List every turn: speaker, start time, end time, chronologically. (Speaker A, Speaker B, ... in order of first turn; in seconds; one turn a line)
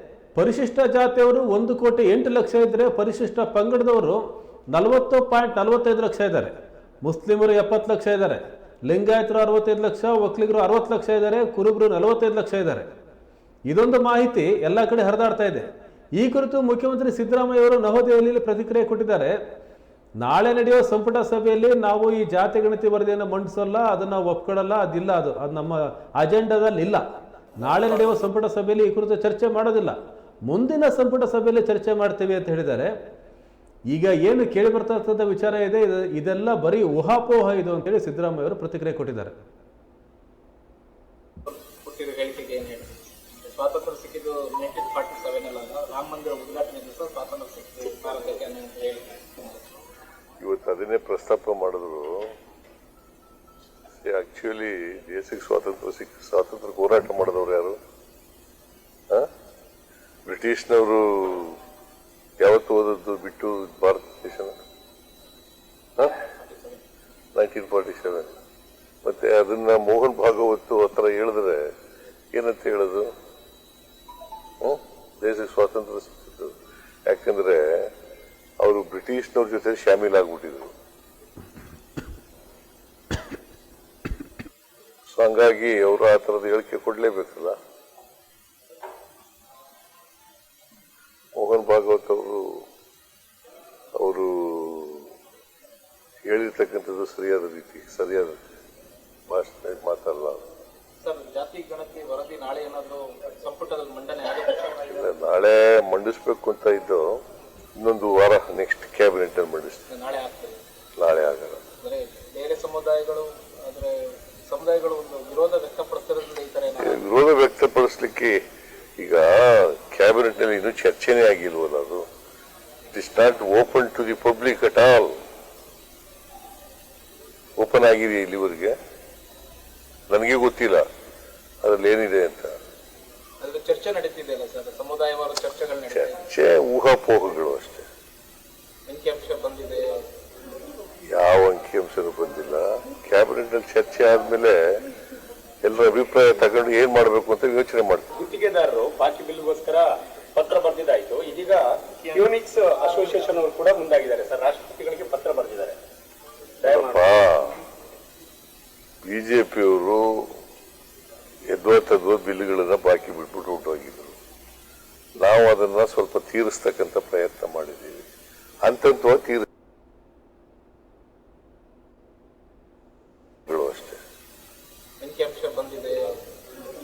Speaker A: 0.3-4.2
Speaker A: 4.7-12.9
Speaker A: 13.7-15.6
Speaker A: 16.2-19.4
Speaker A: 20.2-27.0
Speaker A: 27.6-29.9
Speaker A: 30.5-32.9
Speaker A: 33.9-39.3
Speaker B: 41.5-49.7
Speaker C: 50.4-52.3
Speaker C: 53.9-57.8
Speaker C: 60.3-61.6
Speaker C: 62.4-64.5
Speaker B: 66.3-66.8
Speaker C: 67.3-68.3
Speaker C: 69.0-71.7
Speaker C: 72.3-73.1
Speaker C: 74.6-77.9
Speaker C: 78.6-80.7
Speaker C: 85.1-87.5
Speaker C: 91.3-92.7
Speaker C: 94.0-95.1
Speaker C: 96.3-98.3
Speaker C: 99.3-100.5
Speaker B: 101.0-105.0
Speaker C: 104.8-107.2
Speaker C: 107.8-109.8
Speaker B: 109.9-110.6
Speaker C: 111.0-111.6
Speaker B: 111.8-117.0
Speaker C: 116.8-118.4
Speaker C: 119.0-122.0
Speaker C: 122.9-125.2
Speaker C: 127.6-128.8
Speaker C: 130.1-130.8
Speaker C: 131.6-132.5
Speaker B: 133.4-136.2
Speaker C: 135.9-137.8
Speaker B: 138.9-140.0
Speaker C: 141.1-144.8
Speaker C: 145.6-148.1
Speaker D: 148.2-155.8
Speaker D: 156.6-157.0
Speaker C: 156.6-157.6
Speaker C: 159.0-160.3
Speaker C: 161.5-164.2
Speaker C: 165.2-168.1
Speaker C: 168.6-169.5
Speaker C: 173.5-174.0
Speaker B: 175.0-176.2